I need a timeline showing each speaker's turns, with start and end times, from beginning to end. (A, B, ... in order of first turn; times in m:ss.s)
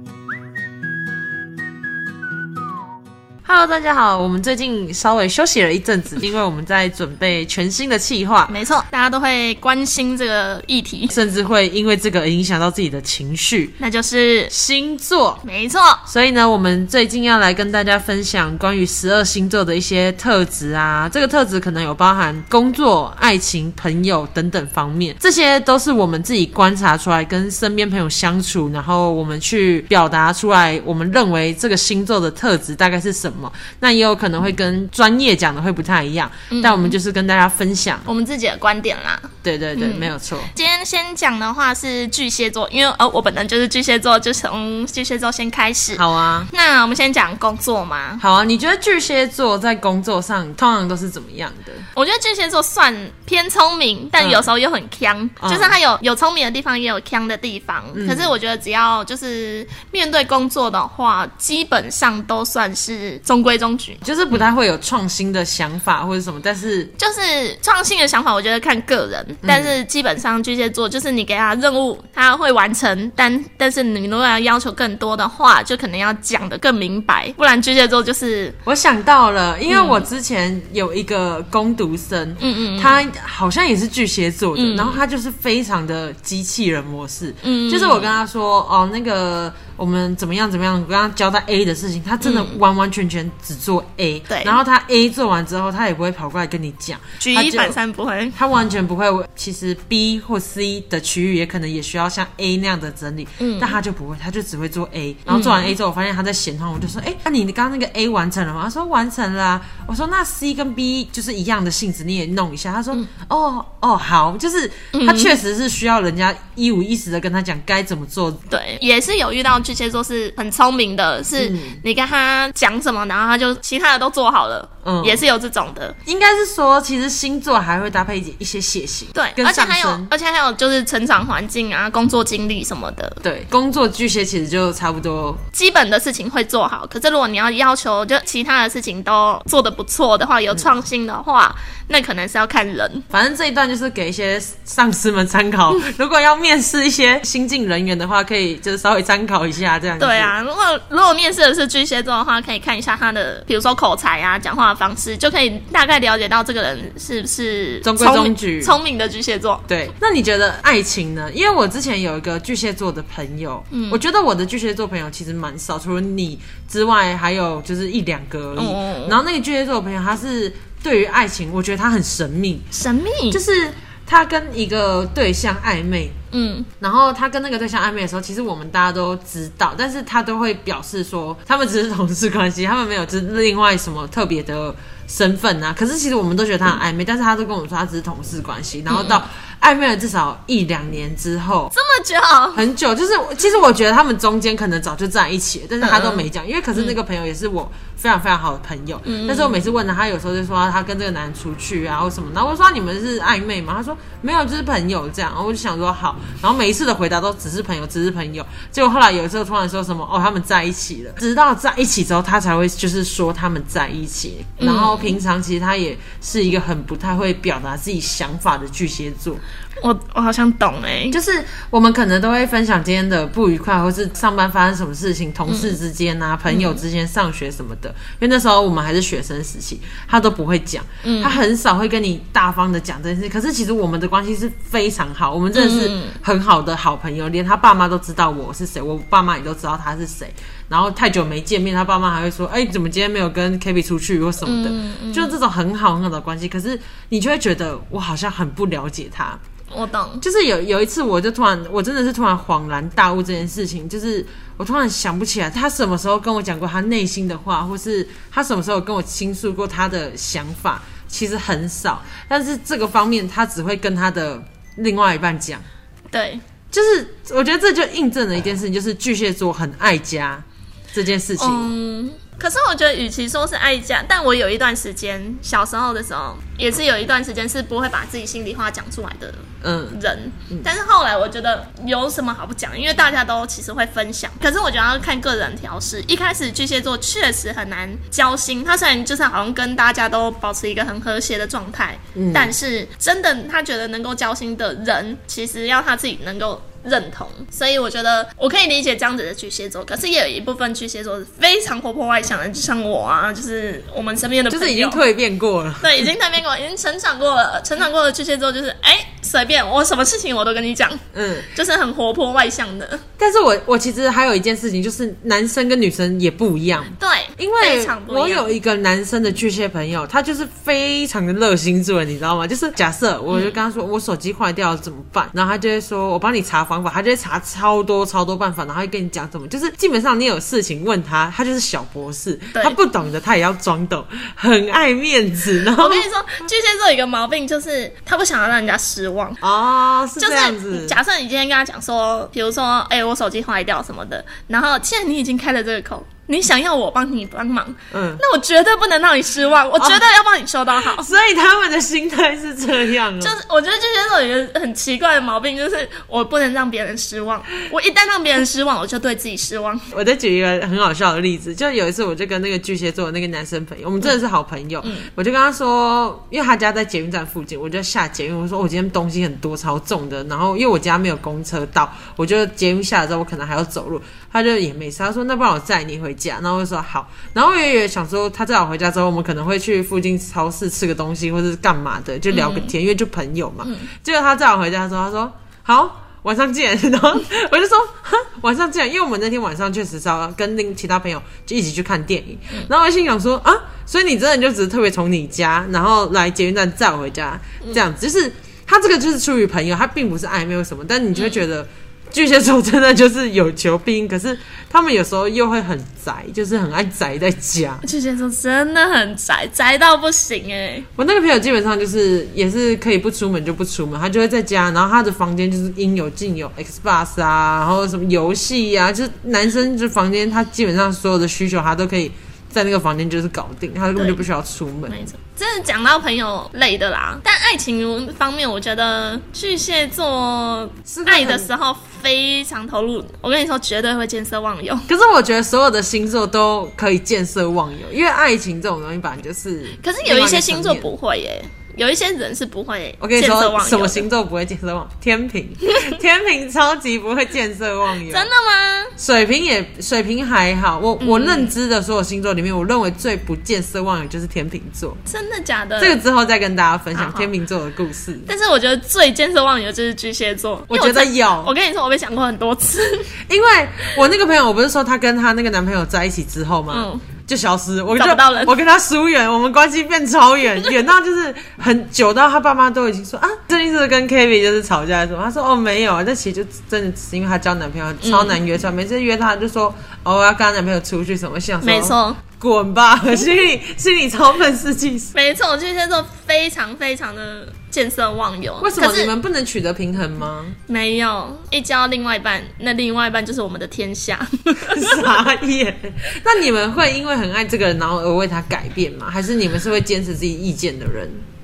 0:03.4-0:08.6 A
0:08.5-0:11.2 B
0:11.1-0:13.8 A
0:13.8-0:14.5 B
0:14.5-0:15.4 A
0:15.4-0:16.0 B
0:16.1-0:38.1 A
0:36.5-0:37.0 B
0:38.1-0:48.2 B
0:39.4-0:40.5 A
0:46.0-0:46.5 A
0:48.2-0:51.9 A
0:52.0-1:04.4 B
0:54.2-0:54.5 A
0:55.4-0:55.8 A
0:57.9-0:58.4 A
1:04.0-1:06.9 A
1:07.0-1:18.6 B
1:09.4-1:09.8 A
1:18.7-1:37.8 A
1:19.7-1:20.0 B
1:22.4-1:23.0 B
1:24.6-1:25.0 B
1:27.4-1:28.1 B
1:32.2-1:32.6 B
1:34.3-1:34.6 B
1:37.2-1:38.4 B
1:38.4-1:58.4 A
1:43.4-1:43.8 B
1:45.3-1:45.7 B
1:54.9-1:55.4 B
1:58.5-2:06.0 B
2:01.4-2:01.8 A
2:04.8-2:05.2 A
2:06.1-2:10.1 A
2:09.1-2:13.2 B
2:13.2-2:15.4 A
2:15.5-2:23.0 B
2:23.1-2:30.3 A
2:30.0-2:39.6 B
2:37.8-2:38.8 A
2:39.7-2:52.7 A
2:43.7-2:44.0 B
2:48.6-2:49.2 B
2:52.7-2:53.4 B
2:53.3-2:56.2 A
2:56.3-2:56.7 B
2:56.8-3:11.7 A
3:08.9-3:09.2 B
3:11.7-3:12.6 B
3:12.5-3:39.4 A
3:15.8-3:17.0 B
3:19.1-3:19.7 B
3:34.6-3:35.2 B
3:39.8-3:41.2 B
3:41.1-4:09.4 A
3:45.5-3:45.8 B
3:46.5-3:46.8 B
3:51.0-3:51.4 B
3:55.5-3:56.2 B
4:04.4-4:05.4 B
4:09.7-4:10.2 B
4:10.2-4:25.6 A
4:26.1-4:26.4 B
4:26.7-4:31.7 A
4:31.4-5:05.0 B
4:39.6-4:40.0 A
4:52.2-4:52.5 A
5:04.5-5:06.1 A
5:05.8-5:13.0 B
5:11.1-5:11.5 A
5:13.2-5:36.1 A
5:17.0-5:18.5 B
5:23.3-5:23.6 B
5:35.8-5:39.4 B
5:39.4-5:41.0 A
5:40.2-5:51.1 B
5:47.9-5:48.2 A
5:49.8-5:50.1 A
5:50.8-5:53.4 A
5:53.2-5:59.8 B
5:59.9-6:47.8 A
6:04.8-6:05.1 B
6:22.3-6:22.8 B
6:23.6-6:23.9 B
6:41.2-6:41.4 B
6:47.8-6:50.9 B
6:51.0-7:05.0 A
7:04.0-7:04.2 B
7:04.9-7:14.9 B
7:10.9-7:11.5 A
7:14.9-7:20.9 A
7:19.8-7:24.1 B
7:23.0-7:28.3 A
7:25.7-7:26.0 B
7:28.1-7:28.9 B
7:29.0-7:35.0 A
7:31.0-7:31.6 B
7:35.1-7:36.0 B
7:35.8-7:38.3 A
7:36.9-7:37.3 B
7:38.3-7:43.1 B
7:40.7-7:41.5 A
7:43.3-8:05.1 A
7:46.7-7:47.1 B
7:48.0-7:48.6 B
7:58.0-7:58.4 B
8:01.6-8:02.2 B
8:05.1-8:09.1 B
8:08.6-8:10.6 A
8:10.7-8:15.2 B
8:14.7-8:21.2 A